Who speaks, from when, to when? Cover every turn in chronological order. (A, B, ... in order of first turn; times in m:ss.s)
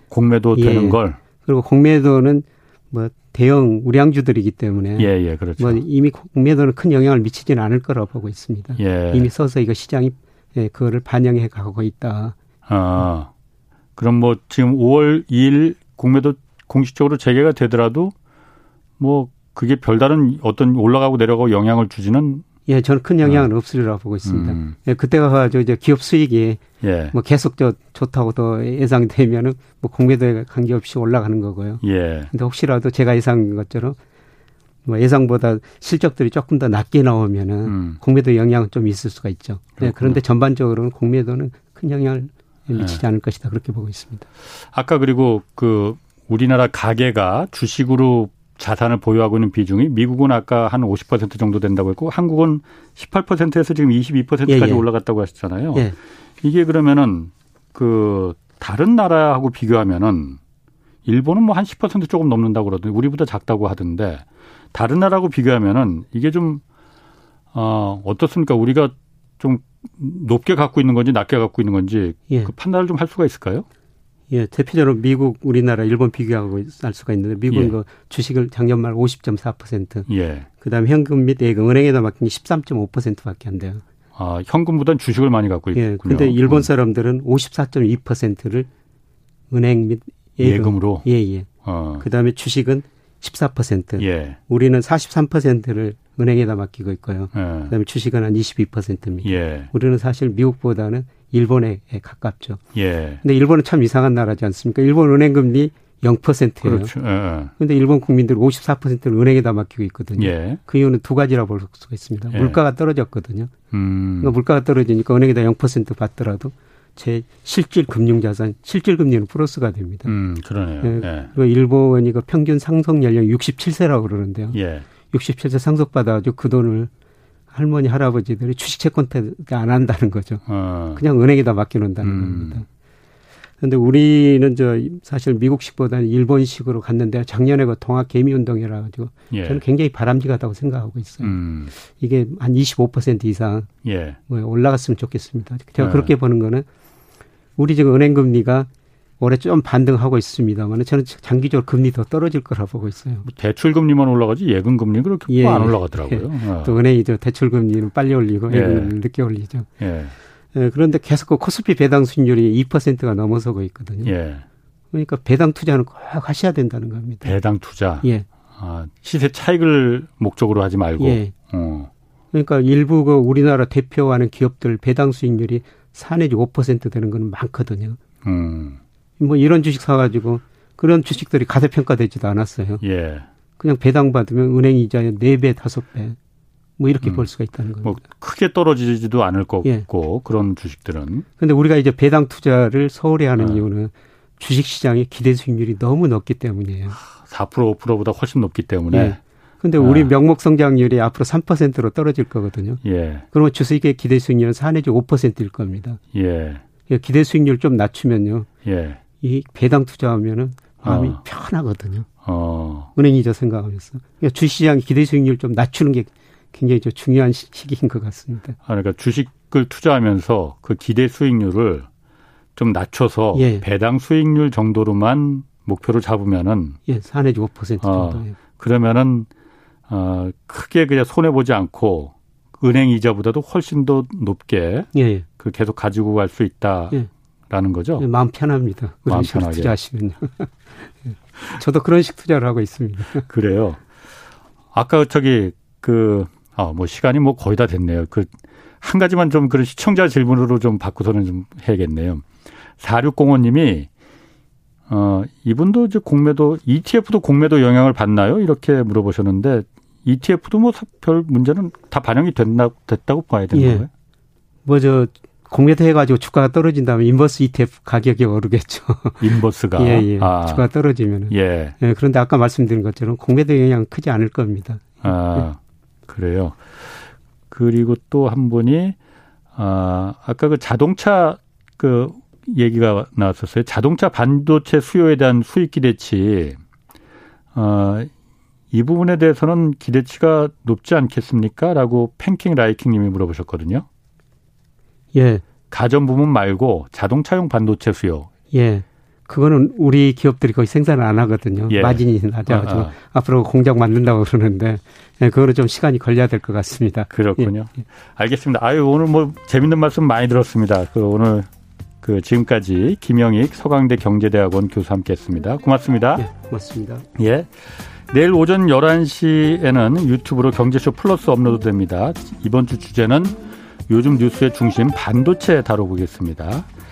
0:00.1-0:01.2 A
0:00.5-0:12.3 B
0:05.0-0:05.8 A
0:08.8-0:09.3 A
0:12.7-0:13.3 A
0:14.0-0:18.1 A
0:19.0-0:22.4 A
0:22.7-0:34.0 B
0:23.2-0:23.5 A
0:24.2-0:24.8 A
0:26.8-0:27.1 A
0:31.8-0:32.3 A
0:34.8-0:44.3 B
0:37.6-0:38.0 A
0:39.8-0:40.2 A
0:44.7-0:55.9 A
0:54.5-0:54.8 B
0:56.4-1:00.4 A
1:01.0-1:06.6 A
1:07.5-1:13.6 A
1:14.3-1:20.1 B
1:20.1-1:20.5 A
1:20.6-1:23.8 B
1:24.1-1:26.7 A
1:25.7-1:28.7 B
1:29.5-1:31.5 B
1:30.4-1:31.0 A
1:31.6-1:32.0 A
1:32.0-1:42.6 B
1:34.0-1:34.4 A
1:37.3-1:37.7 A
1:39.2-1:39.7 A
1:42.7-1:43.2 A
1:43.2-1:46.9 B
1:46.6-1:47.5 A
1:47.6-1:53.5 B
1:50.2-1:50.6 A
1:52.3-1:52.6 A
1:53.7-1:54.3 A
1:54.2-2:00.1 B
2:00.0-2:01.3 A
2:00.8-2:04.6 B
2:04.5-2:04.8 A
2:05.1-2:06.9 B
2:07.5-2:10.4 B
2:10.4-2:11.0 A
2:11.0-2:12.6 B
2:12.0-2:12.6 A
2:13.6-2:23.7 B
2:19.3-2:19.6 A
2:21.2-2:21.7 A
2:23.8-2:24.2 A
2:24.3-2:26.6 B
2:25.8-2:26.1 A
2:27.6-2:28.7 B
2:29.2-2:33.2 B
2:33.2-2:36.7 A
2:35.3-2:39.7 B
2:38.5-2:38.9 A
2:39.8-2:40.1 A
2:40.5-2:44.1 B
2:44.0-2:44.4 A
2:44.9-2:47.3 B
2:47.2-2:51.9 A
2:48.0-2:48.3 B
2:51.0-2:51.3 B
2:52.3-2:58.0 B
2:58.2-2:58.8 A
2:59.2-3:02.8 B
3:02.8-3:03.3 A
3:03.6-3:06.2 B
3:06.8-3:08.0 B
3:07.8-3:11.2 A
3:11.4-3:17.0 B
3:13.4-3:13.6 A
3:17.0-3:19.2 A
3:18.9-3:22.8 B
3:19.8-3:20.1 A
3:22.8-3:23.2 A
3:23.3-3:26.0 B
3:26.1-3:26.6 A
3:26.9-3:28.5 B
3:28.6-3:29.0 A
3:29.2-3:32.1 B
3:30.8-3:31.2 A
3:32.2-3:32.9 A
3:32.9-3:38.6 B
3:38.6-3:41.9 A
3:42.6-3:46.8 A
3:43.3-3:43.6 B
3:46.9-3:48.4 B
3:47.8-3:49.3 A
3:49.9-3:57.0 A
3:54.9-3:55.2 B
3:57.5-3:58.0 A
3:58.0-4:03.2 B
3:59.1-3:59.7 A
4:03.3-4:03.8 A
4:04.7-4:12.2 A
4:12.8-4:13.9 A
4:14.9-4:23.9 A
4:23.5-4:23.8 B
4:24.6-4:35.4 B
4:29.2-4:30.7 A
4:31.3-4:31.8 A
4:35.0-4:39.0 A
4:39.6-4:46.6 A
4:47.5-4:48.1 A
4:48.7-4:53.8 A
4:55.1-4:55.4 B
4:55.7-4:58.3 A
4:58.5-5:07.5 B
5:01.7-5:02.9 A
5:07.1-5:11.5 A
5:12.0-5:16.2 A
5:16.2-5:17.0 B
5:17.2-5:17.5 A
5:18.1-5:26.7 A